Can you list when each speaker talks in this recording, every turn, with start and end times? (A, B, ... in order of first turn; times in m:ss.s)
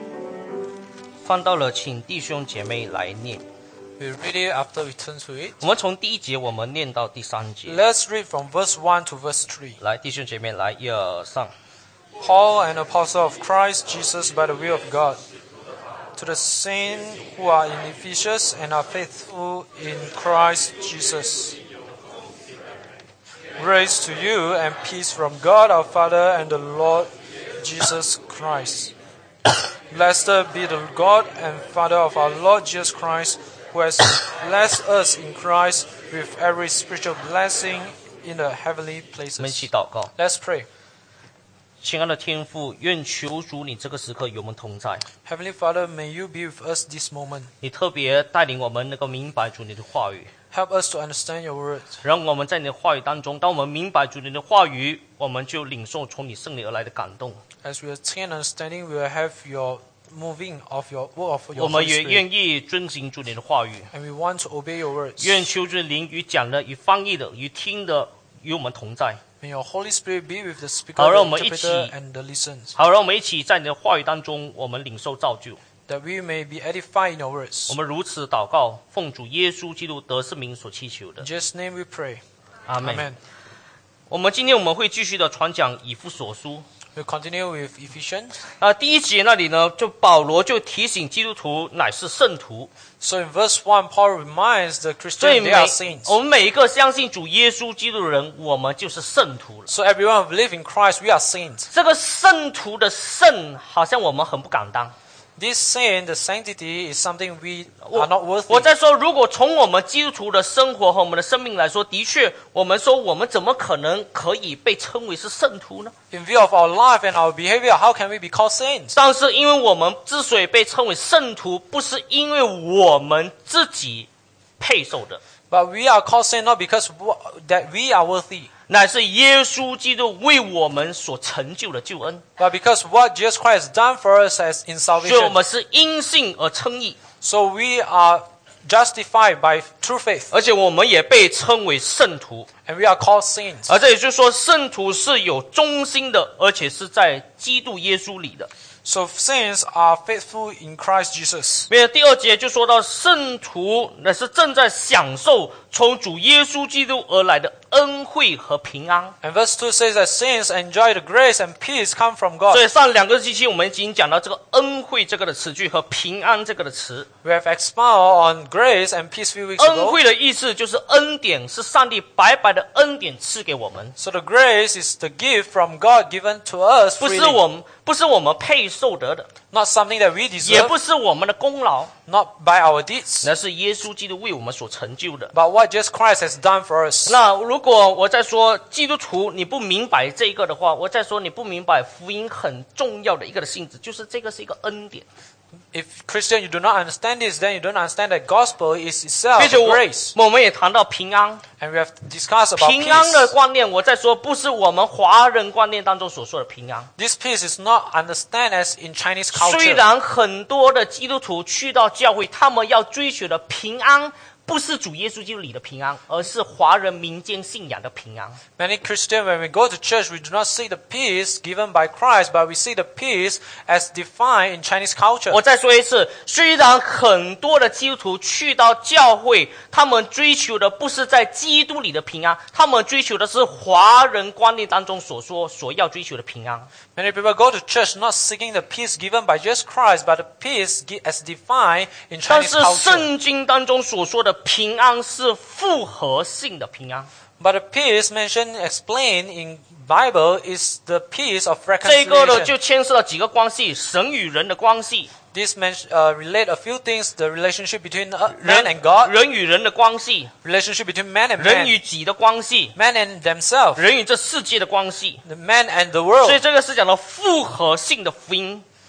0:01.2-0:03.4 A
0:04.0-0:05.6 B
0:05.6-0:07.8 A
0:07.6-0:09.8 B
0:09.8-0:11.5 A
0:12.2-0:15.2 B
0:16.2-0:21.6 B
0:23.6-0:28.9 B
0:29.9-0:40.7 B
0:39.4-0:40.1 A
0:41.8-0:45.0 A
0:45.2-0:47.5 B
0:47.6-0:50.3 A
0:50.5-0:51.9 B
0:52.0-0:57.4 A
0:57.6-1:02.2 B
1:01.6-1:03.9 A
1:03.9-1:05.5 B
1:05.2-1:09.2 A
1:09.4-1:12.7 B
1:11.0-1:11.9 A
1:12.8-1:15.6 A
1:15.9-1:17.8 B
1:17.7-1:21.2 A
1:21.2-1:22.2 B
1:22.7-1:23.1 A
1:22.8-1:23.2 B
1:24.1-1:26.6 A
1:27.0-1:28.4 B
1:28.6-1:32.7 A
1:33.0-1:36.1 B
1:35.2-1:39.7 A
1:39.7-1:41.7 B
1:41.7-1:44.9 A
1:45.4-1:48.7 B
1:47.8-1:55.9 A
1:56.1-1:58.9 B
1:58.9-2:04.1 A
2:04.6-2:05.2 A
2:05.5-2:08.5 B
2:08.7-2:12.2 A
2:12.4-2:15.4 B
2:15.0-2:17.0 A
2:17.2-2:20.3 B
2:20.3-2:22.5 A
2:22.7-2:23.7 B
2:23.7-2:28.5 A
2:28.8-2:31.7 B
2:31.7-2:39.1 A
2:39.2-2:42.6 B
2:42.5-2:47.1 A
2:47.2-2:50.0 B
2:49.6-2:53.9 A
2:54.0-2:57.4 B
2:57.0-2:59.3 A
2:59.5-3:00.8 B
3:00.4-3:01.9 A
3:02.1-3:03.3 B
3:03.2-3:05.3 A
3:05.3-3:07.2 B
3:07.1-3:15.1 A
3:15.7-3:20.1 B
3:19.4-3:21.4 A
3:21.6-3:23.3 B
3:22.6-3:26.9 A
3:27.0-3:29.8 B
3:29.3-3:38.4 A
3:38.6-3:45.4 B
3:45.3-3:56.7 A
3:56.9-4:03.1 B
4:02.3-4:07.1 A
4:07.4-4:12.5 B
4:11.8-4:15.1 A
4:15.3-4:19.1 B
4:18.3-4:20.3 A
4:20.4-4:21.8 B
4:21.4-4:22.7 A
4:22.8-4:23.8 B
4:23.8-4:25.2 A
4:25.2-4:26.4 B
4:26.2-4:28.6 A